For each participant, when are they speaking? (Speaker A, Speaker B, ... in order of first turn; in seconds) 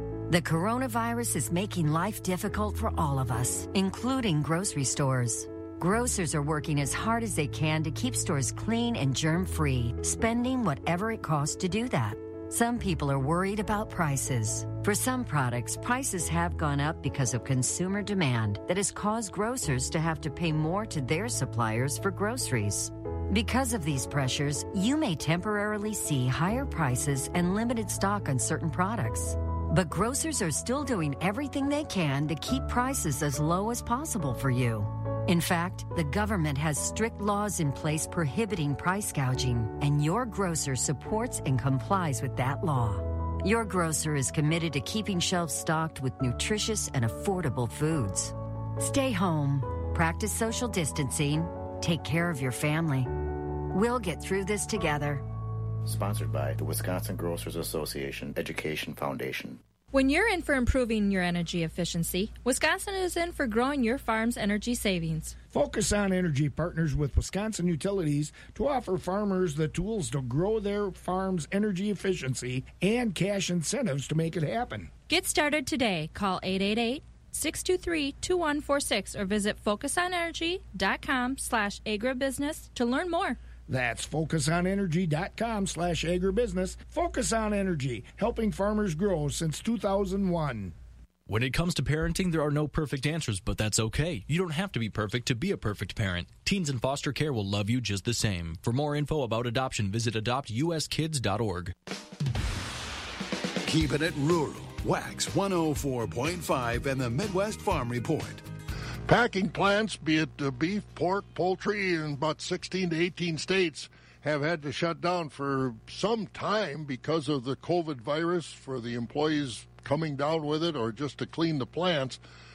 Speaker A: 0.3-53.1, 53.7-55.2
Speaker B: 55.8-59.6
Speaker C: 59.9-65.3, 75.1-83.4
Speaker D: 65.5-74.9, 83.7-90.6
Speaker E: 91.3-101.7
Speaker F: 103.7-108.4
Speaker G: 109.1-122.2